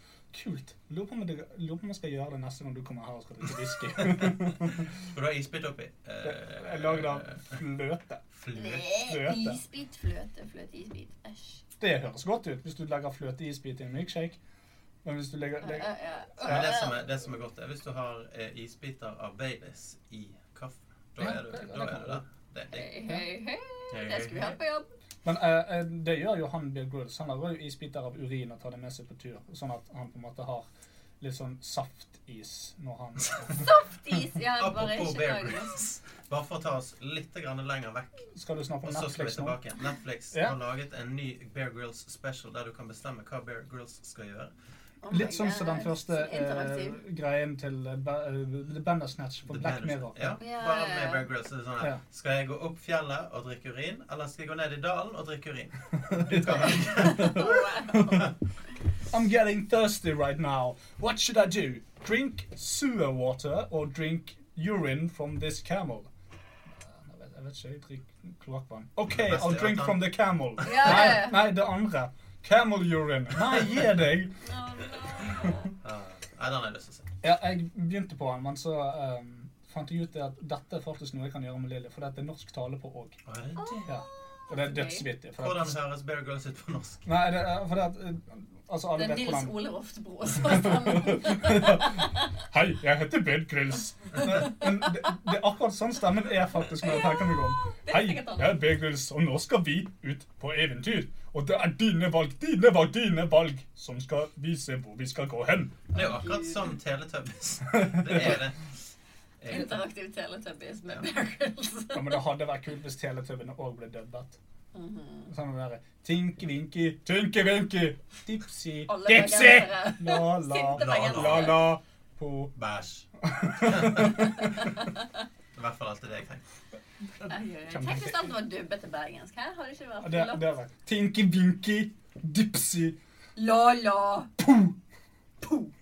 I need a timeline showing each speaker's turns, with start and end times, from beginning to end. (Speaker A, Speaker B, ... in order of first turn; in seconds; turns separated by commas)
Speaker A: 0.3-4.9, Speaker B: 4.1-7.6, Speaker A: 6.2-8.2, Speaker B: 8.3-8.9, Speaker C: 8.6-11.6, Speaker A: 9.1-9.6, Speaker A: 11.8-14.4, Speaker A: 15.0-15.9, Speaker C: 15.6-17.0, Speaker B: 16.4-22.9, Speaker A: 21.2-22.2, Speaker C: 22.7-24.9, Speaker B: 23.9-24.6, Speaker A: 25.2-30.7, Speaker A: 31.2-33.7, Speaker C: 33.6-35.8, Speaker B: 34.6-38.3, Speaker A: 38.4-39.6, Speaker B: 38.8-44.5, Speaker C: 45.0-47.0, Speaker A: 45.1-50.4, Speaker B: 49.5-57.4, Speaker C: 50.4-51.2, Speaker A: 56.1-58.3, Speaker C: 56.8-58.3, Speaker A: 59.1-66.1, Speaker A: 66.8-74.4, Speaker B: 69.1-71.0, Speaker C: 70.6-71.4, Speaker C: 74.4-75.7, Speaker B: 75.8-77.1, Speaker A: 77.2-83.2, Speaker B: 83.3-83.9, Speaker C: 83.6-85.1, Speaker A: 83.9-85.8, Speaker B: 85.4-87.1, Speaker A: 87.1-89.5, Speaker C: 89.0-92.2, Speaker A: 90.5-105.8, Speaker C: 96.8-98.7, Speaker C: 105.9-106.7, Speaker B: 105.9-108.7, Speaker A: 107.7-108.4, Speaker B: 109.4-109.8, Speaker C: 109.5-112.2, Speaker A: 111.9-114.4, Speaker C: 114.7-115.3, Speaker A: 115.3-122.5, Speaker C: 118.9-121.7, Speaker B: 120.8-121.7, Speaker B: 122.5-124.7, Speaker A: 123.3-124.5, Speaker C: 124.4-125.1, Speaker B: 125.5-126.4, Speaker A: 127.2-128.3, Speaker C: 127.3-130.5, Speaker A: 130.0-133.0, Speaker C: 133.4-134.3, Speaker A: 134.4-134.8